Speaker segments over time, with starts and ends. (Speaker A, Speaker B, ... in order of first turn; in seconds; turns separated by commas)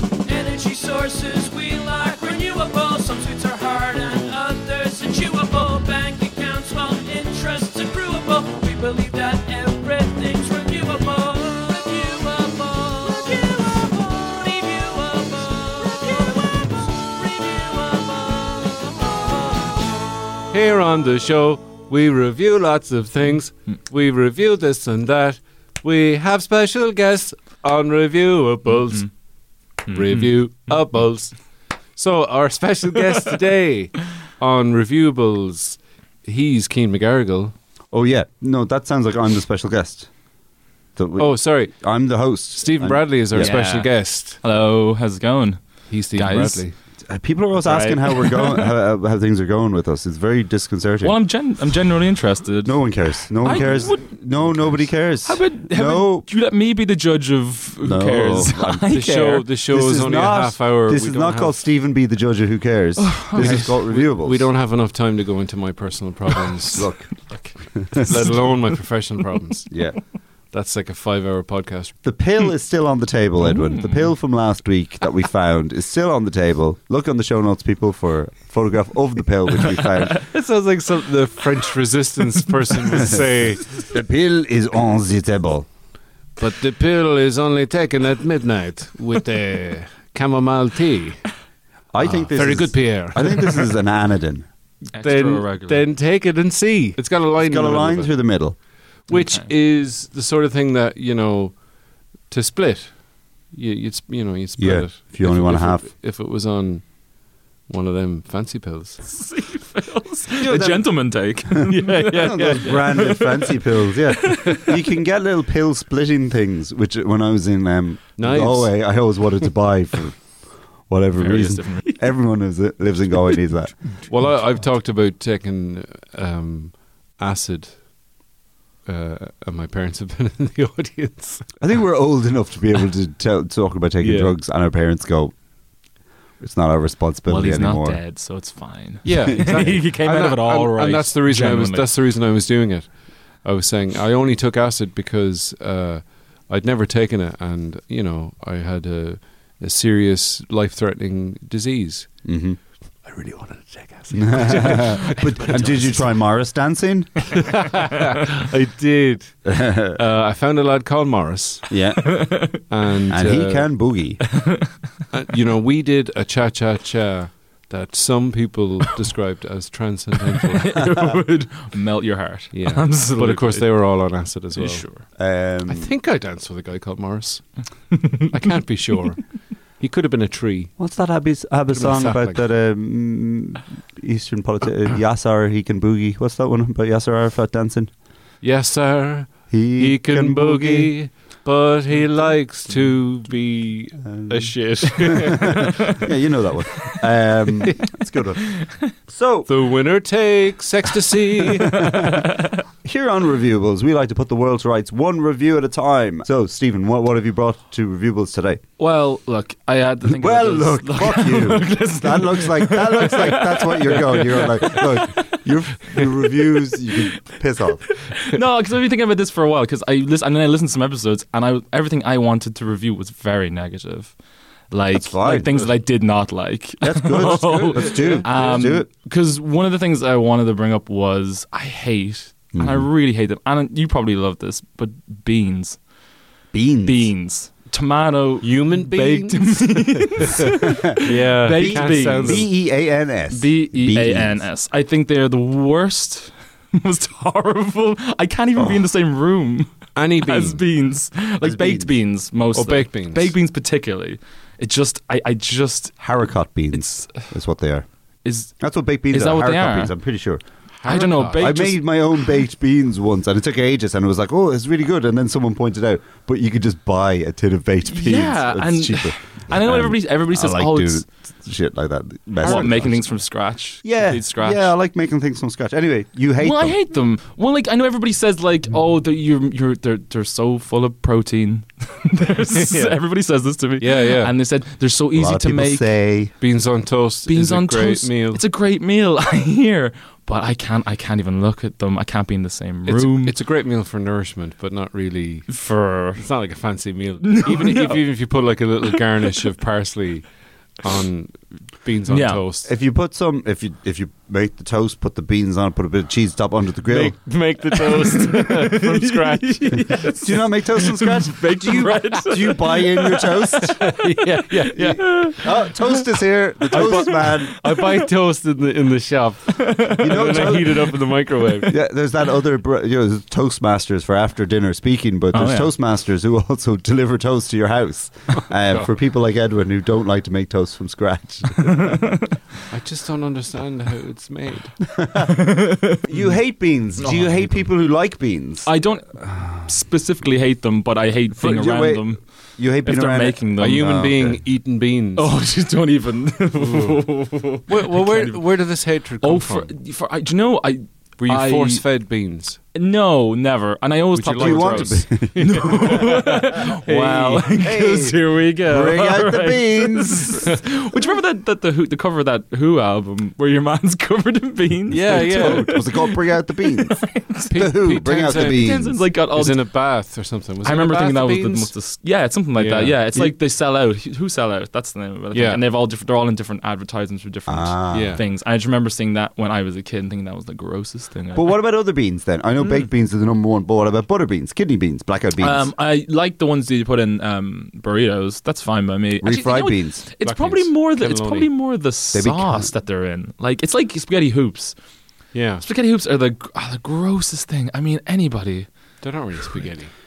Speaker A: 0.3-19.7, Speaker B: 20.5-29.1, Speaker C: 29.9-30.3, Speaker B: 29.9-31.4, Speaker B: 32.0-37.5, Speaker D: 37.9-40.1, Speaker D: 41.0-43.5, Speaker B: 41.2-41.8, Speaker B: 42.6-44.4, Speaker C: 43.4-46.6, Speaker B: 45.9-46.7, Speaker D: 47.1-51.1, Speaker C: 47.6-48.7, Speaker C: 51.0-54.2, Speaker D: 52.6-56.3, Speaker C: 54.8-59.5, Speaker D: 57.8-58.9, Speaker B: 58.9-61.6, Speaker D: 59.7-64.5, Speaker C: 63.0-63.7, Speaker B: 63.4-66.9, Speaker D: 66.8-67.1, Speaker B: 68.0-69.7, Speaker D: 69.7-70.0, Speaker B: 70.5-72.0, Speaker D: 72.0-80.2, Speaker C: 73.5-74.1, Speaker B: 80.2-83.6, Speaker D: 83.8-85.7, Speaker B: 86.4-91.3, Speaker D: 91.9-94.5, Speaker B: 92.3-93.8, Speaker C: 94.9-95.8, Speaker B: 95.0-98.1, Speaker D: 97.4-98.6, Speaker B: 99.1-101.6, Speaker C: 99.1-99.5, Speaker B: 102.3-106.9, Speaker D: 104.6-105.8, Speaker B: 107.7-109.1, Speaker C: 109.1-114.7, Speaker D: 110.4-111.6, Speaker B: 111.7-112.8, Speaker D: 112.3-120.4, Speaker B: 118.2-119.1, Speaker D: 120.9-123.8, Speaker C: 121.2-122.0, Speaker B: 124.1-127.8, Speaker B: 128.9-131.6, Speaker D: 131.6-135.3, Speaker B: 134.0-134.3, Speaker D: 136.4-138.0, Speaker C: 137.3-141.9, Speaker B: 139.0-152.2, Speaker D: 139.4-139.8, Speaker D: 152.2-152.6, Speaker B: 153.1-155.6, Speaker D: 154.1-157.3, Speaker C: 154.4-156.1, Speaker B: 157.3-161.7, Speaker D: 159.4-160.0, Speaker D: 161.7-162.2, Speaker C: 162.1-162.6, Speaker B: 162.6-163.7, Speaker D: 163.1-164.2, Speaker C: 164.3-164.8, Speaker B: 165.1-170.8, Speaker C: 170.5-173.7, Speaker B: 172.5-174.8, Speaker C: 174.6-175.0, Speaker D: 175.2-175.9, Speaker B: 175.7-177.5, Speaker C: 177.9-178.3, Speaker B: 178.2-180.7, Speaker D: 180.8-187.9, Speaker B: 181.7-182.4, Speaker B: 188.4-195.9, Speaker D: 189.5-190.9, Speaker D: 194.1-194.5, Speaker D: 195.2-199.5, Speaker B: 199.5-201.8, Speaker D: 201.7-202.3, Speaker C: 201.7-202.6, Speaker D: 202.8-208.6, Speaker C: 208.8-216.2, Speaker D: 210.1-217.8, Speaker C: 218.2-224.2, Speaker C: 224.7-235.8, Speaker D: 224.9-225.7, Speaker D: 226.8-228.9, Speaker B: 227.8-228.4, Speaker D: 232.5-232.9, Speaker D: 236.5-237.1, Speaker C: 236.8-242.4, Speaker B: 238.4-242.5, Speaker D: 240.6-241.0, Speaker D: 241.5-244.4, Speaker C: 243.3-256.0, Speaker D: 248.6-248.8, Speaker B: 250.0-250.6, Speaker D: 251.4-251.9, Speaker B: 252.5-253.3, Speaker D: 256.0-257.9, Speaker C: 256.7-257.3, Speaker C: 258.2-258.5, Speaker D: 258.6-260.4, Speaker C: 259.1-259.9, Speaker B: 260.8-261.5, Speaker C: 260.9-261.9, Speaker D: 261.4-273.2, Speaker C: 267.9-271.1, Speaker C: 272.4-274.7, Speaker D: 273.8-276.8, Speaker C: 276.4-285.9, Speaker B: 282.5-283.0, Speaker B: 283.8-284.3, Speaker D: 285.1-286.3, Speaker B: 286.4-288.4, Speaker C: 287.3-293.3, Speaker B: 292.9-295.6, Speaker C: 295.5-296.2, Speaker B: 296.1-300.3, Speaker C: 297.2-298.0, Speaker B: 300.8-302.7, Speaker C: 302.1-302.4, Speaker D: 302.6-307.2, Speaker B: 306.9-309.9, Speaker C: 307.9-314.0, Speaker D: 310.2-313.8, Speaker B: 313.6-315.3, Speaker C: 314.7-317.9, Speaker D: 314.8-317.5, Speaker B: 316.7-321.8, Speaker C: 319.6-320.8, Speaker D: 320.0-321.0, Speaker D: 321.7-332.0, Speaker C: 325.3-325.7, Speaker C: 331.6-332.4, Speaker B: 332.7-334.8, Speaker D: 334.9-335.4, Speaker C: 335.2-336.3, Speaker D: 336.0-338.7, Speaker C: 337.0-337.7, Speaker C: 338.6-342.2, Speaker D: 341.4-344.4, Speaker C: 342.8-343.9, Speaker B: 343.6-345.3, Speaker C: 345.2-348.4, Speaker B: 346.6-347.0, Speaker B: 347.7-349.8, Speaker C: 349.2-351.9, Speaker B: 351.2-352.6, Speaker C: 352.7-367.6, Speaker B: 354.2-357.5, Speaker D: 354.4-355.7, Speaker D: 357.6-360.5, Speaker B: 364.9-365.8, Speaker D: 365.1-368.9, Speaker B: 367.5-371.7, Speaker C: 368.2-369.7, Speaker C: 370.6-381.6, Speaker B: 372.6-373.0, Speaker B: 375.3-375.6, Speaker D: 377.5-378.2, Speaker B: 377.9-378.2, Speaker D: 381.4-385.7, Speaker C: 385.4-394.8, Speaker D: 389.2-390.1, Speaker B: 390.2-391.5, Speaker D: 392.1-392.7, Speaker B: 395.3-395.6, Speaker C: 395.6-398.7, Speaker B: 399.0-399.9